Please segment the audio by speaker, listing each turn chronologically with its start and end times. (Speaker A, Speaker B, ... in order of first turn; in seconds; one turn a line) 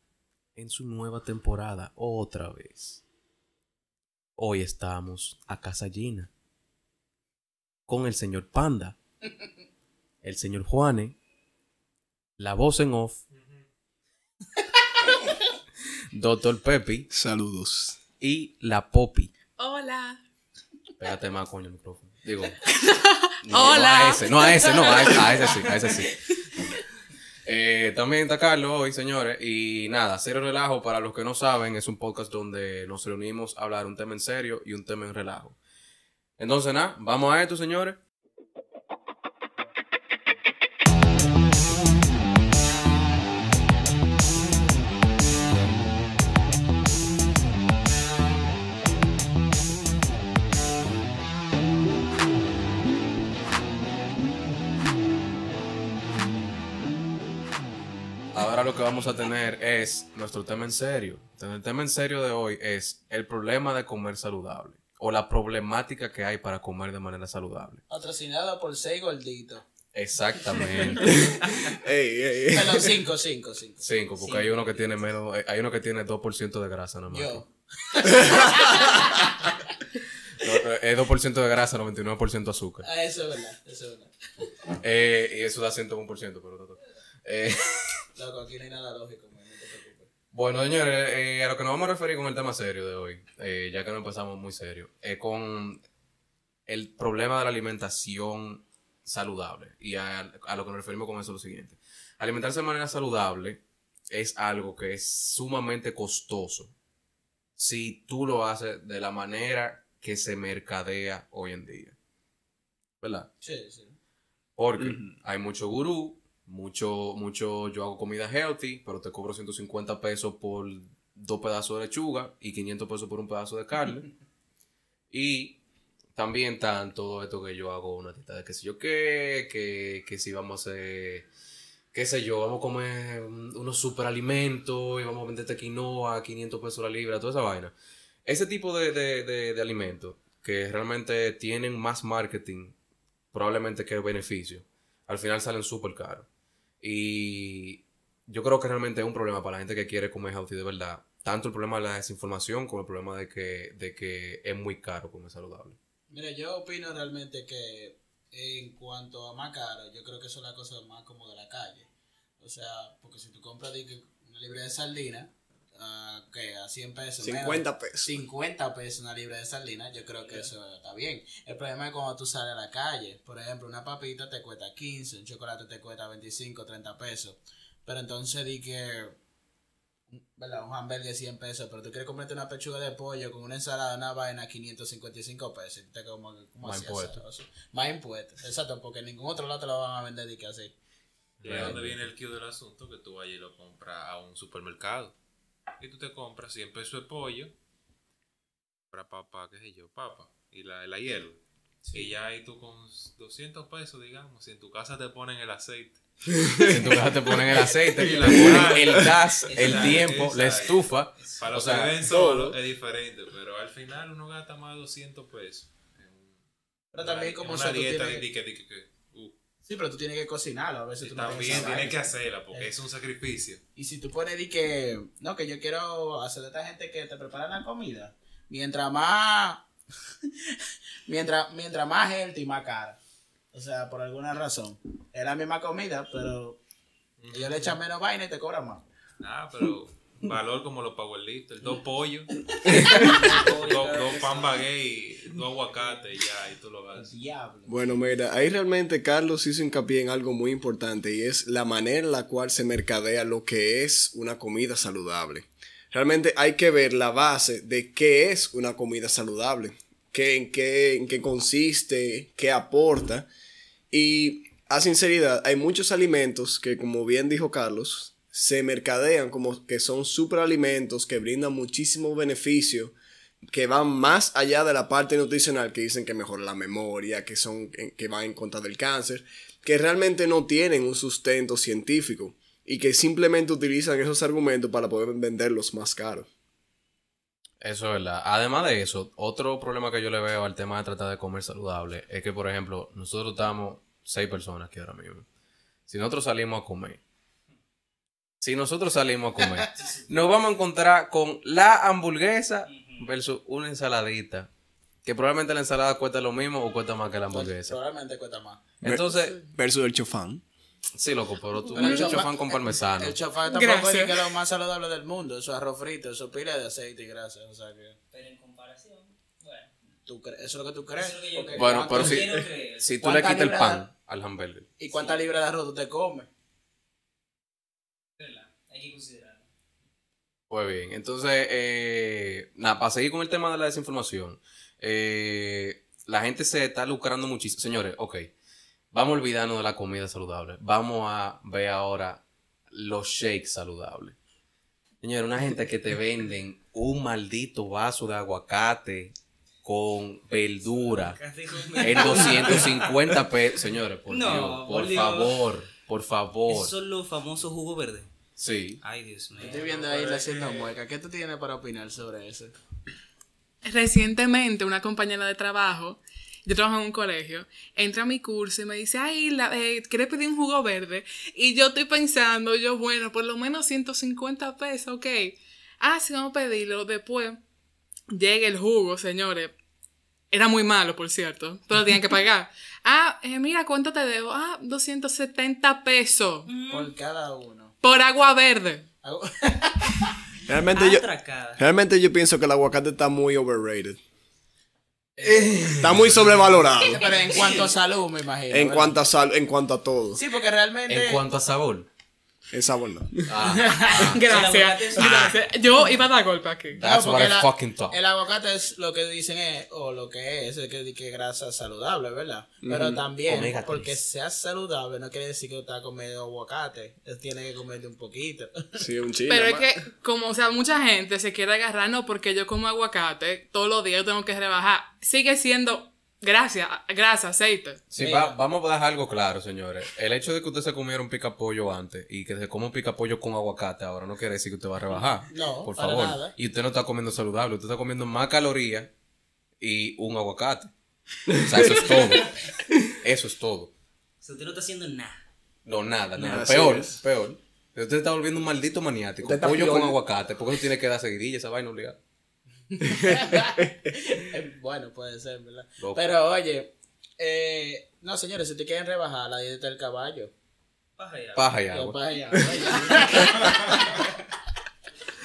Speaker A: 0.6-3.0
Speaker A: 4.4-6.3
Speaker A: 7.9-8.9
Speaker A: 10.2-11.2
Speaker A: 12.4-13.2
Speaker B: 13.3-13.6
Speaker A: 16.1-17.1
Speaker C: 17.1-18.0
Speaker A: 18.2-19.3
Speaker D: 19.6-20.2
Speaker A: 21.0-22.6
Speaker D: 22.6-25.8
Speaker A: 23.4-26.2
Speaker A: 27.4-35.6
Speaker A: 36.4-38.0
Speaker A: 58.3-67.8
Speaker E: 67.9-69.6
Speaker A: 69.9-71.3
Speaker C: 71.0-73.0
Speaker E: 72.5-74.4
Speaker A: 73.8-77.4
Speaker E: 77.1-79.6
Speaker A: 80.4-82.8
Speaker E: 82.8-84.1
Speaker A: 84.8-88.0
Speaker E: 88.2-90.1
Speaker A: 90.3-95.8
Speaker A: 96.7-106.7
Speaker A: 107.6-111.9
Speaker A: 113.0-113.3
Speaker E: 113.4-114.0
Speaker A: 114.6-124.1
Speaker C: 114.8-115.1
Speaker A: 125.1-125.6
Speaker A: 126.1-131.3
Speaker A: 131.9-137.7
Speaker A: 138.2-142.8
Speaker A: 143.3-146.2
Speaker A: 146.8-155.8
Speaker E: 156.1-161.9
Speaker E: 162.4-179.2
Speaker C: 167.2-168.2
Speaker E: 180.1-190.7
Speaker A: 186.6-187.2
Speaker B: 191.4-195.1
Speaker A: 191.4-192.0
Speaker B: 195.8-197.5
Speaker B: 198.9-206.0
Speaker C: 206.3-207.6
Speaker A: 206.6-212.0
Speaker B: 208.0-216.4
Speaker F: 209.5-210.1
Speaker C: 212.0-212.6
Speaker E: 216.9-218.2
Speaker B: 216.9-219.3
Speaker E: 219.7-222.7
Speaker B: 221.0-223.6
Speaker E: 223.8-229.7
Speaker E: 230.2-233.0
Speaker E: 233.5-236.6
Speaker B: 237.2-237.8
Speaker E: 237.3-238.8
Speaker B: 239.2-247.1
Speaker E: 242.7-243.2
Speaker C: 242.7-243.1
Speaker F: 242.7-244.6
Speaker E: 246.9-247.8
Speaker C: 247.7-263.3
Speaker C: 263.9-272.9
Speaker C: 273.5-286.3
Speaker A: 287.6-295.2
Speaker A: 295.9-297.0
Speaker A: 298.4-304.5
Speaker F: 302.7-303.1
Speaker A: 305.0-307.8
Speaker E: 307.3-308.6
Speaker A: 308.8-309.4
Speaker C: 308.8-310.4
Speaker A: 310.9-313.2
Speaker E: 311.7-318.0
Speaker D: 311.8-312.1
Speaker D: 313.5-314.3
Speaker F: 318.1-319.7
Speaker E: 320.1-322.4
Speaker F: 320.9-322.8
Speaker A: 321.6-324.7
Speaker E: 323.0-323.9
Speaker E: 324.8-326.3
Speaker F: 324.9-325.2
Speaker F: 328.2-329.4
Speaker A: 330.5-338.3
Speaker A: 338.9-344.1
Speaker A: 345.0-351.2
Speaker F: 350.7-353.2
Speaker A: 351.8-356.7
Speaker E: 352.0-352.4
Speaker F: 354.1-355.4
Speaker F: 356.5-358.1
Speaker A: 358.4-358.8
Speaker F: 358.8-359.6
Speaker B: 359.4-360.7
Speaker E: 359.4-362.5
Speaker D: 363.6-377.4
Speaker D: 378.1-379.5
Speaker D: 380.3-386.5
Speaker F: 386.5-386.9
Speaker E: 386.7-387.7
Speaker D: 387.8-388.9
Speaker E: 389.0-390.2
Speaker C: 390.4-394.0
Speaker F: 390.7-391.6
Speaker E: 395.2-395.7
Speaker A: 395.2-396.3
Speaker C: 395.8-397.0
Speaker E: 396.8-399.0
Speaker C: 398.5-400.2
Speaker E: 400.1-401.2
Speaker A: 400.9-401.9
Speaker C: 402.5-403.4
Speaker A: 403.3-404.2
Speaker E: 403.4-404.2
Speaker D: 404.0-406.8
Speaker F: 404.3-405.4
Speaker A: 406.8-408.0
Speaker E: 406.8-418.8
Speaker C: 412.6-413.0
Speaker A: 413.2-413.9
Speaker C: 418.8-419.8
Speaker D: 419.3-427.8
Speaker A: 427.9-438.9
Speaker E: 428.0-428.4
Speaker E: 435.3-436.4
Speaker A: 439.6-440.7
Speaker C: 441.3-442.8
Speaker A: 441.3-443.7
Speaker F: 444.2-445.2
Speaker A: 445.6-452.0
Speaker C: 446.1-447.0
Speaker C: 449.2-450.0
Speaker E: 452.7-460.3
Speaker C: 452.8-453.7
Speaker A: 455.8-456.0
Speaker F: 461.0-461.6
Speaker A: 461.4-462.0
Speaker E: 461.7-464.0
Speaker F: 462.8-463.0